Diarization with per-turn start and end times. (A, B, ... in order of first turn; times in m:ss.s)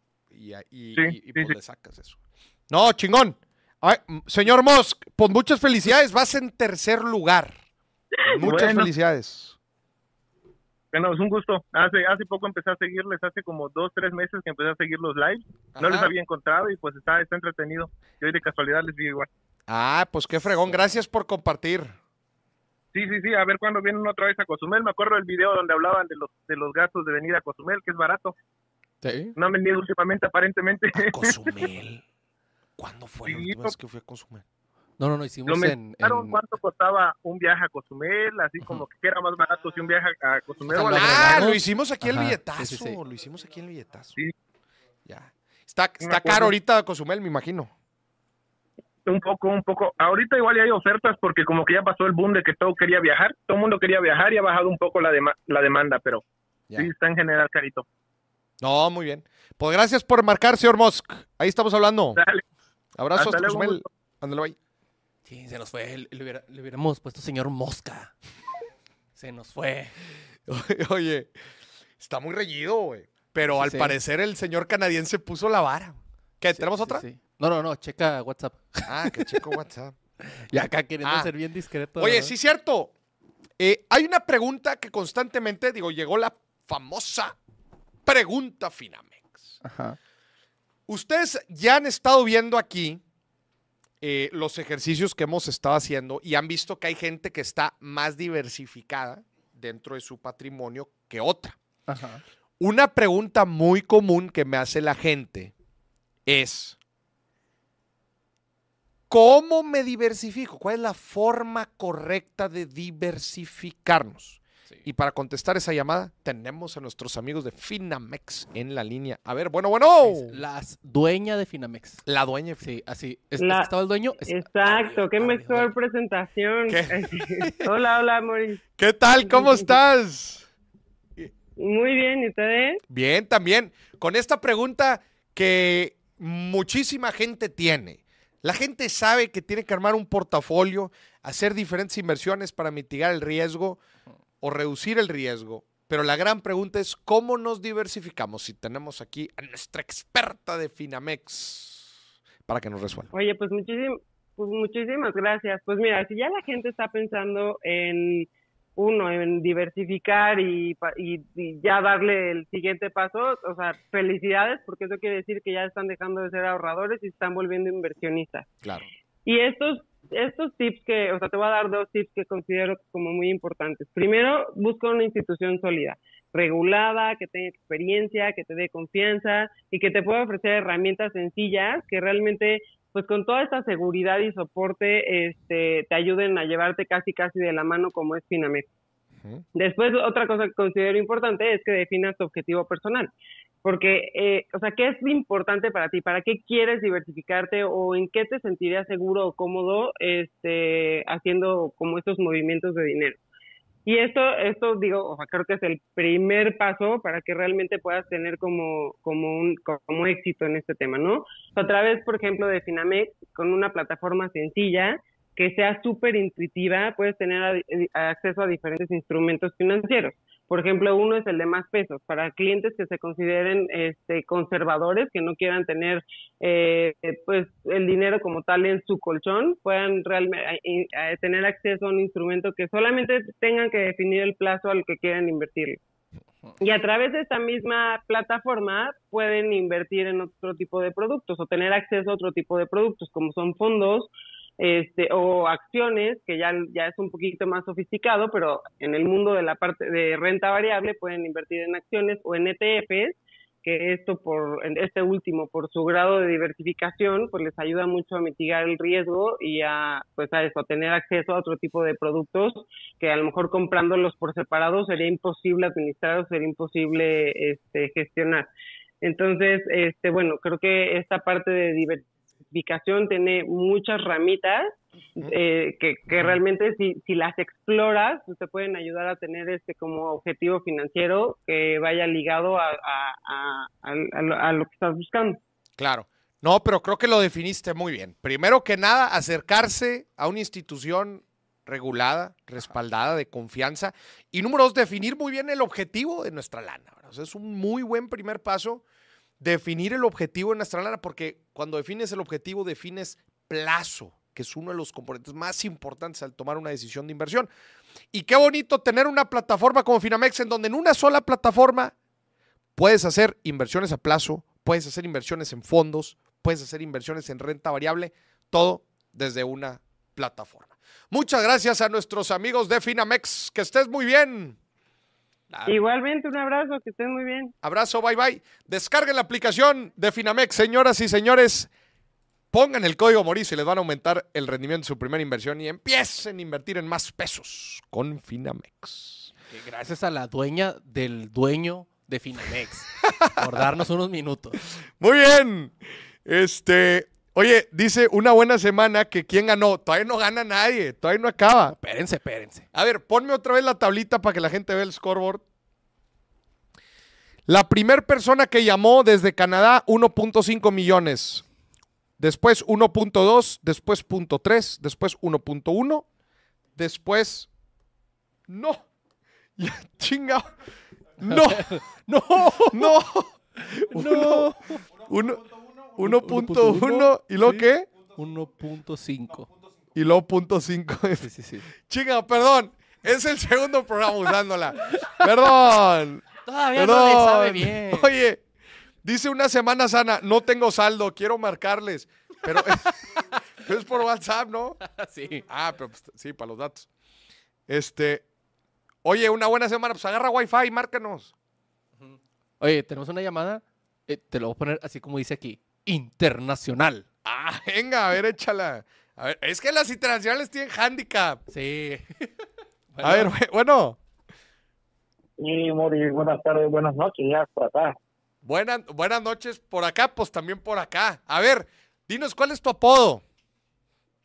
0:00.3-0:02.2 A
0:01.0-0:01.6 B
0:02.7-0:07.6 A
0:08.3-0:09.6 A
0:08.3-0:08.9 B
0:10.9-0:19.3 B
0:15.8-0:16.1 A
0:19.7-0:22.0 A
0:20.7-0:21.0 C
0:22.9-0:28.4 B
0:29.0-0:29.4 C
0:29.4-0:31.3 B
0:30.9-0:32.0 A
0:32.8-0:34.4 A
0:33.2-0:33.7 B
0:35.0-0:36.4 C
0:35.5-0:41.4 B
0:40.7-0:43.0 C
0:40.8-0:44.2 A
0:45.1-0:47.7 A
0:46.0-0:46.5 B
0:49.1-0:56.2 B
0:56.8-0:57.8 B
0:58.6-1:02.2 A
1:02.2-1:02.4 B
1:03.0-1:04.6 A
1:03.2-1:03.9 B
1:05.2-1:08.1 C
1:09.2-1:10.0 C
1:10.5-1:11.3 A
1:12.0-1:17.0 A
1:13.5-1:14.0 C
1:16.5-1:19.4 C
1:18.9-1:20.0 A
1:20.2-1:22.3 C
1:21.0-1:21.3 A
1:22.0-1:22.9 A
1:23.6-1:27.4 A
1:28.1-1:29.6 A
1:29.6-1:30.0 C
1:30.9-1:33.0 A
1:34.0-1:41.6 A
1:41.9-1:42.2 C
1:42.6-1:45.5 A
1:46.3-1:46.8 A
1:49.1-2:00.4 A
2:00.0-2:02.0 C
2:02.1-2:02.6 A
2:02.6-2:05.7 C
2:03.4-2:03.7 D
2:04.2-2:08.6 D
2:06.7-2:07.7 A
2:08.8-2:10.5 A
2:09.2-2:09.7 D
2:11.6-2:12.8 D
2:12.9-2:23.8 A
2:24.4-2:32.0 A
2:32.5-2:33.1 A
2:33.1-2:48.5 D
2:49.3-3:08.7 D
3:09.6-3:13.1 D
3:13.6-3:23.2 D
3:23.9-3:55.8 D
3:56.6-4:28.5 D
4:29.0-4:45.4 D
4:45.8-4:58.8 A
4:59.4-5:07.5 A
5:08.1-5:11.9 A
5:12.8-5:24.6 A
5:25.5-5:25.8 A
5:25.7-5:27.5 D
5:27.6-5:31.7 A
5:32.5-5:39.3 A
5:39.5-5:44.6 C
5:43.0-5:43.6 A
5:45.0-5:51.8 A
5:51.7-5:52.7 C
5:52.7-5:55.4 A
5:57.5-6:01.4 A
6:02.2-6:06.0 A
6:06.8-6:07.5 A
6:08.5-6:08.8 A
6:09.6-6:10.5 A
6:11.2-6:11.8 A
6:11.2-6:13.0 C
6:12.7-6:17.9 A
6:13.9-6:14.8 C
6:16.0-6:19.5 C
6:19.9-6:21.3 A
6:21.2-6:21.7 C
6:21.8-6:28.4 A
6:26.4-6:28.1 C
6:29.0-6:33.0 A
6:32.5-6:33.4 C
6:33.6-6:34.8 A
6:34.8-6:35.4 C
6:35.5-6:36.9 A
6:37.7-6:38.2 A
6:39.0-6:41.3 A
6:42.0-6:47.1 C
6:47.2-6:51.4 A
6:51.5-6:52.3 C
6:52.9-6:53.3 C
6:53.0-6:54.0 A
6:55.4-6:58.0 E
6:58.4-7:03.2 A